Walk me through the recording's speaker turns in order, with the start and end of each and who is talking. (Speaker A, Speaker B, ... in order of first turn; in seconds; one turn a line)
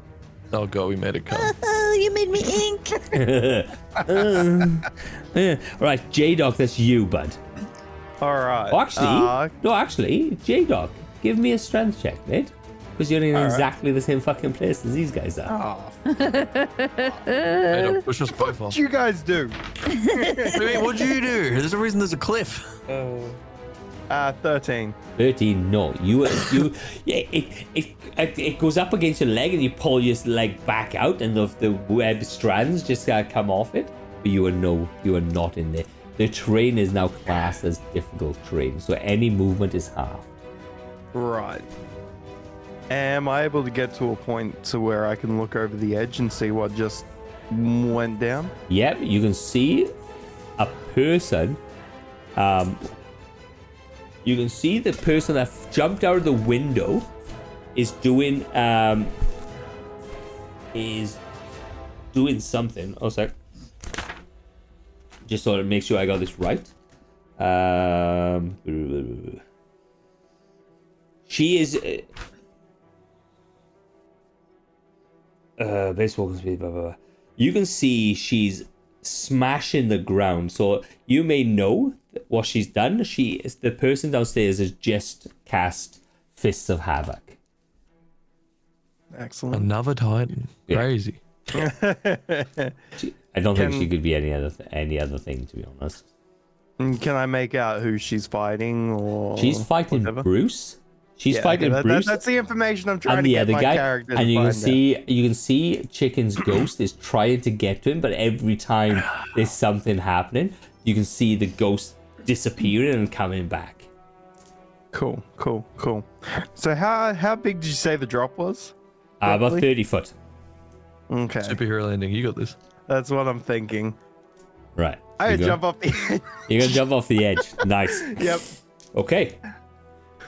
Speaker A: 0.5-1.5
Speaker B: 1.3-3.2
Speaker C: 3.1-7.4
Speaker D: 8.2-9.5
Speaker C: 8.7-15.5
Speaker D: 13.3-13.7
Speaker D: 15.4-16.1
Speaker B: 16.1-18.0
Speaker A: 17.7-18.8
Speaker D: 18.6-21.0
Speaker B: 19.9-20.6
Speaker A: 20.4-22.7
Speaker D: 22.9-23.4
Speaker D: 24.1-24.9
Speaker C: 25.1-40.3
Speaker D: 41.1-41.6
Speaker D: 42.9-48.5
Speaker C: 48.7-49.9
Speaker C: 50.6-51.6
Speaker C: 52.4-52.8
Speaker C: 54.2-57.1
Speaker C: 57.7-59.1
Speaker C: 60.7-61.2
Speaker C: 62.1-63.3
Speaker C: 65.2-66.7
Speaker C: 67.4-69.4
Speaker C: 71.3-72.1
Speaker C: 75.6-87.4
Speaker D: 89.1-89.7
Speaker A: 89.5-91.6
Speaker D: 91.5-92.7
Speaker C: 93.0-96.0
Speaker D: 93.5-93.9
Speaker D: 96.8-100.2
Speaker C: 99.4-102.2
Speaker D: 101.3-104.8
Speaker C: 103.0-113.9
Speaker D: 114.9-118.7
Speaker C: 119.2-120.1
Speaker D: 119.2-119.7
Speaker D: 121.1-121.6
Speaker A: 121.4-122.5
Speaker D: 122.9-124.0
Speaker C: 124.8-125.6
Speaker D: 125.2-126.7
Speaker C: 126.5-128.4
Speaker D: 128.0-128.4
Speaker C: 128.9-129.4